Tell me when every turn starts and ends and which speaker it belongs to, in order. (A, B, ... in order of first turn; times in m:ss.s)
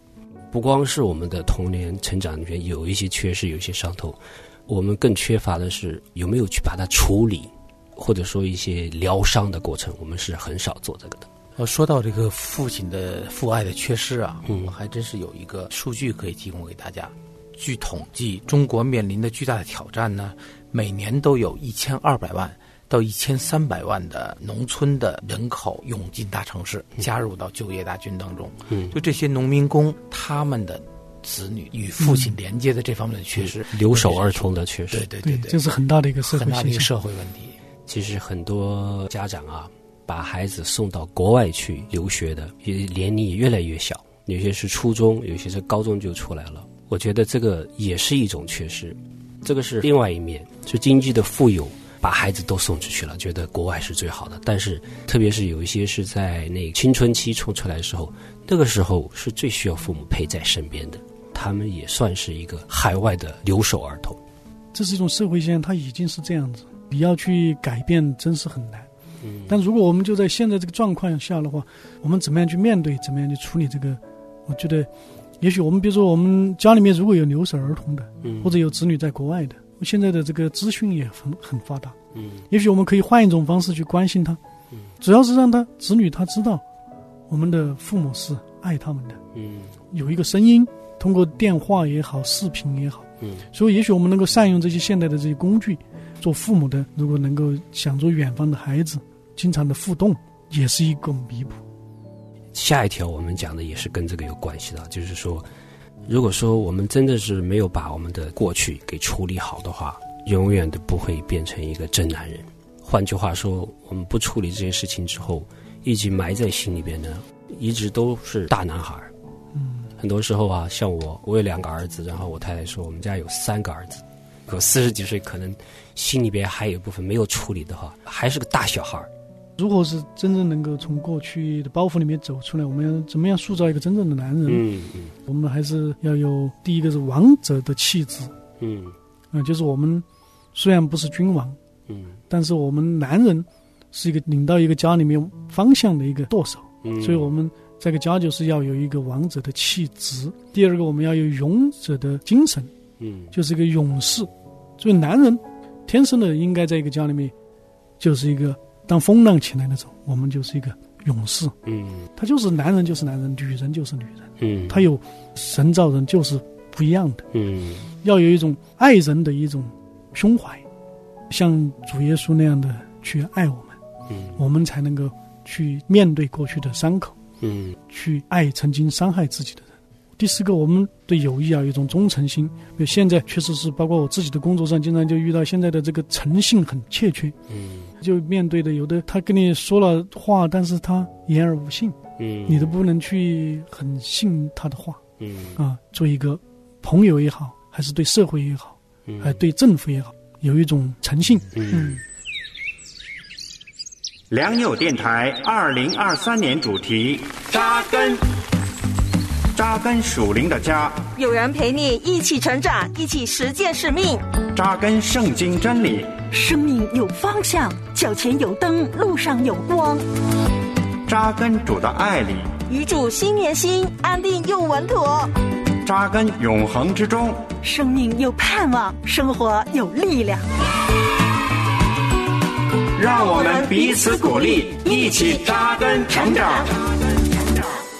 0:00.5-0:11.3 A
0:11.6-0:35.6 B
0:14.5-0:14.7 A
0:28.7-0:28.9 A
0:33.4-0:35.1 A
0:35.2-0:36.9 C
0:36.2-0:37.6 B
0:37.9-1:04.2 A
1:04.7-1:08.9 C
1:09.2-1:09.6 A
1:09.5-1:14.9 C
1:15.4-1:22.0 C
1:18.2-1:18.5 A
1:22.1-1:22.4 A
1:22.5-1:24.4 C
1:25.0-1:26.6 C
1:27.3-1:29.2 C
1:29.3-1:29.7 A
1:29.9-1:41.6 C
1:42.5-1:45.5 A
1:46.1-1:59.1 A
1:59.5-1:59.9 C
2:00.0-2:09.1 A
2:09.6-2:14.6 C
2:14.4-2:15.1 A
2:15.3-2:18.3 C
2:18.6-2:19.0 A
2:19.3-2:21.6 C
2:21.9-2:22.2 A
2:22.3-2:32.7 C
2:26.8-2:27.3 A
2:33.0-2:33.3 A
2:33.3-2:37.3 C
2:38.0-2:41.5 C
2:41.6-2:42.1 A
2:42.2-2:47.3 C
2:44.4-2:44.9 A
2:47.3-2:47.9 A
2:48.0-2:50.6 C
2:51.3-2:53.8 C
2:54.1-2:54.4 A
2:54.4-2:57.1 C
2:57.4-2:57.8 A
2:57.9-3:07.3 C
3:07.5-3:07.9 A
3:08.0-3:15.0 C
3:12.2-3:12.8 A
3:15.2-3:15.6 A
3:15.6-3:22.0 C
3:19.1-3:19.4 A
3:21.5-3:22.0 A
3:24.3-3:28.2 D
3:27.5-3:28.2 E
3:29.5-3:31.0 D
3:31.1-3:34.2 E
3:34.5-3:36.2 D
3:36.2-3:40.0 E
3:41.1-3:42.5 D
3:42.7-3:45.3 E
3:45.8-3:47.5 D
3:47.6-3:50.4 E
3:53.0-3:56.8 D
3:53.0-3:56.7 E